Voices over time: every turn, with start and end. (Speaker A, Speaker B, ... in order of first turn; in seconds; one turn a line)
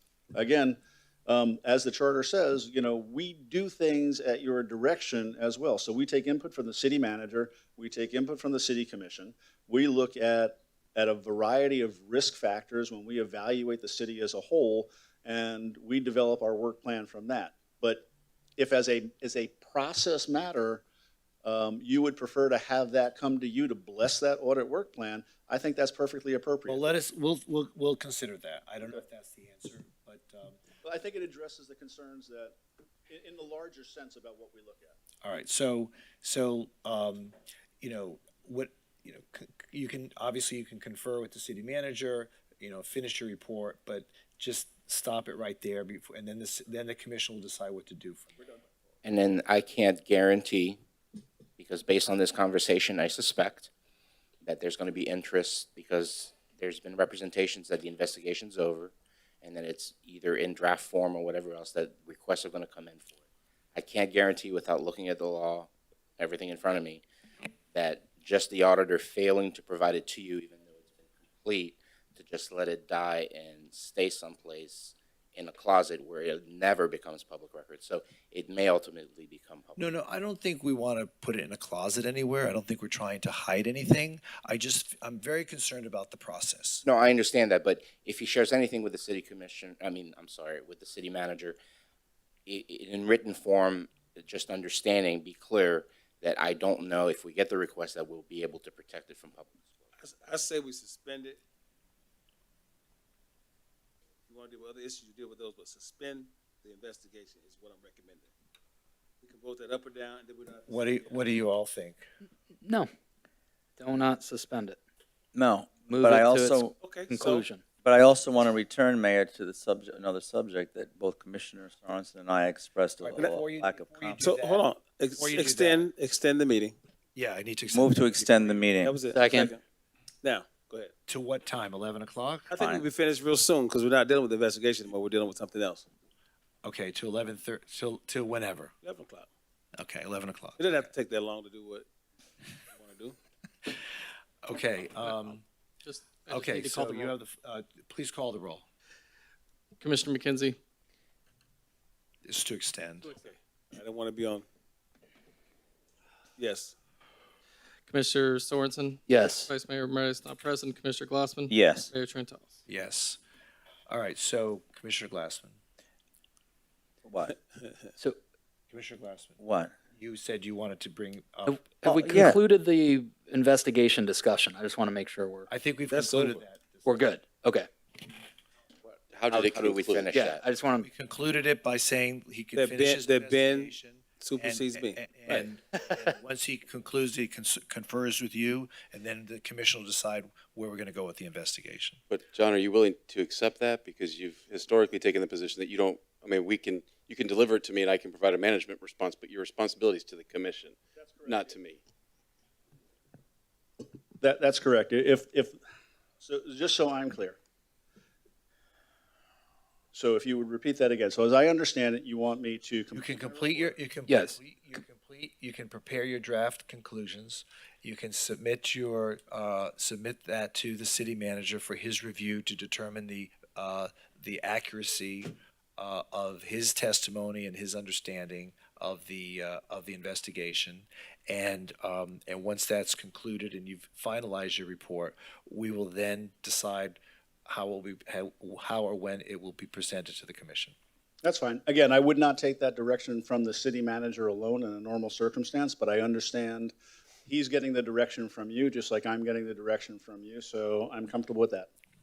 Speaker A: 0.3-20.8
Speaker A: 21.4-26.9
Speaker B: 26.7-30.6
Speaker A: 30.8-32.5
Speaker A: 33.1-35.0
Speaker B: 35.2-48.3
Speaker C: 49.0-50.8
Speaker C: 51.6-53.7
Speaker C: 54.4-63.2
Speaker C: 63.8-67.0
Speaker C: 67.7-79.9
Speaker B: 79.8-86.8
Speaker C: 86.8-91.6
Speaker C: 92.5-99.8
Speaker D: 100.0-101.4
Speaker D: 104.3-108.3
Speaker D: 109.2-111.1
Speaker B: 110.7-112.0
Speaker E: 112.6-112.9
Speaker E: 113.8-114.8
Speaker F: 115.3-116.8
Speaker E: 115.9-117.7
Speaker D: 116.8-117.5
Speaker F: 117.8-124.4
Speaker B: 123.0-125.9
Speaker D: 124.2-126.8
Speaker B: 127.2-128.7
Speaker F: 127.7-129.1
Speaker D: 128.2-129.6
Speaker E: 129.1-129.5
Speaker D: 130.2-130.9
Speaker B: 131.1-132.5
Speaker D: 132.5-135.8
Speaker F: 132.6-132.9
Speaker B: 136.6-138.7
Speaker D: 138.8-139.3
Speaker B: 139.8-140.7
Speaker D: 140.6-141.9
Speaker D: 142.7-143.2
Speaker B: 144.4-145.4
Speaker G: 145.8-147.2
Speaker B: 146.3-148.7
Speaker G: 149.8-150.6
Speaker B: 152.2-153.1
Speaker D: 153.2-154.4
Speaker D: 156.4-156.7
Speaker G: 157.9-162.6
Speaker E: 159.1-159.5
Speaker F: 161.5-161.9
Speaker B: 162.7-163.2
Speaker B: 163.9-165.6
Speaker F: 167.1-167.3
Speaker B: 168.7-169.4
Speaker F: 169.4-169.7
Speaker B: 169.9-171.7
Speaker E: 171.5-175.5
Speaker F: 171.8-172.4
Speaker B: 175.5-177.1
Speaker D: 175.9-176.4
Speaker E: 176.9-177.7
Speaker H: 179.1-180.1
Speaker C: 179.3-180.4
Speaker E: 180.1-180.9
Speaker B: 180.8-192.0
Speaker D: 182.6-185.4
Speaker H: 192.1-201.8
Speaker A: 201.0-201.6
Speaker A: 204.2-205.6
Speaker A: 206.2-207.4
Speaker A: 209.9-213.8
Speaker B: 212.9-240.8
Speaker E: 214.1-214.4
Speaker A: 241.2-246.7
Speaker A: 247.3-251.7